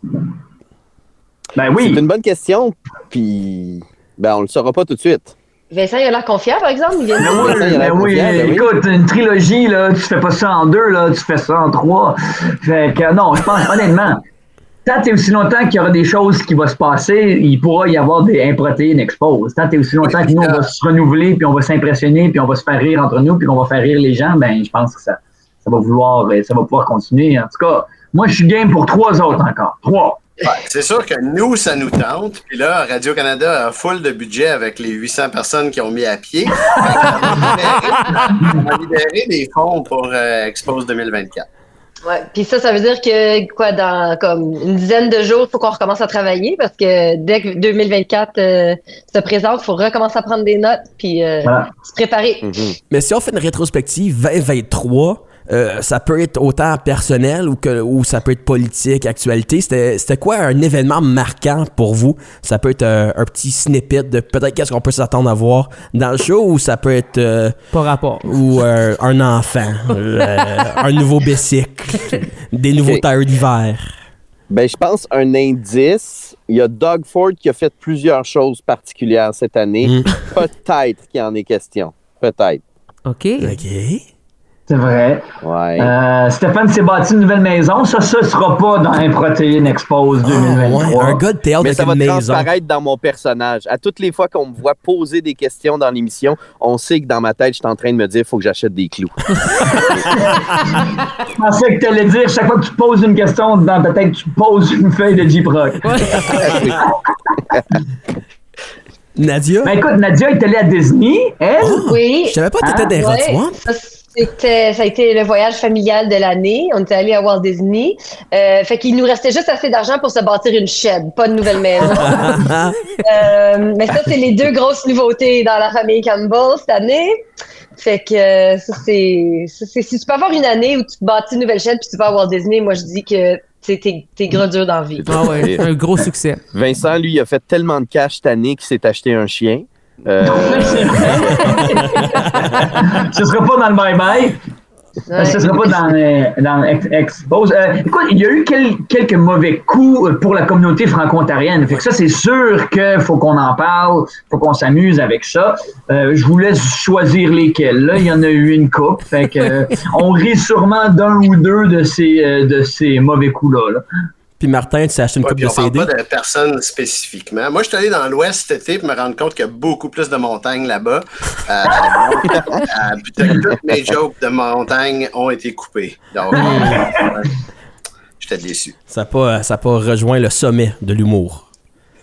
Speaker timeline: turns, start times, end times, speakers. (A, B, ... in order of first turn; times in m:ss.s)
0:01.6-0:02.0 A
0:01.8-0:05.3 B
0:05.7-0:07.8 C
0:07.2-0:14.2 A
0:07.3-0:08.7 B
0:14.8-0:30.2 A
0:20.0-0:20.7 D
0:30.4-0:41.4 D
0:38.3-0:38.6 A
0:42.0-0:52.6 C
0:51.4-0:51.7 A
0:52.4-0:52.8 B
0:52.9-1:07.6 E
1:07.7-1:08.3 F
1:08.2-1:13.8 E
1:14.5-1:22.6 B
1:19.8-1:20.1 E
1:23.1-1:23.6 F
1:23.4-1:24.0 E
1:24.7-1:25.2 A
1:25.4-1:25.9 B
1:25.8-1:31.2 A
1:30.2-1:32.5 E
1:31.6-1:40.2 B
1:40.0-1:45.9 A
1:40.3-1:40.8 E
1:45.8-1:46.7 F
1:46.4-1:46.8 B
1:49.2-1:49.8 E
1:49.6-1:51.8 A
1:51.6-1:53.6 E
1:51.8-1:52.4 C
1:52.6-1:52.9 A
1:52.9-2:02.5 C
2:01.9-2:02.8 E
2:03.0-2:07.2 C
2:07.7-2:15.1 C
2:15.0-2:15.7 B
2:15.1-2:16.4 F
2:16.5-2:22.4 B
2:20.2-2:24.4 A
2:21.5-2:22.6 E
2:25.1-2:25.8 C
2:25.1-2:43.8 A
2:44.4-2:45.9 E
2:45.2-2:57.4 D
2:52.3-2:52.6 B
2:56.3-2:56.9 E
2:56.3-2:57.1 A
2:58.2-2:58.8 D
2:58.9-3:01.4 E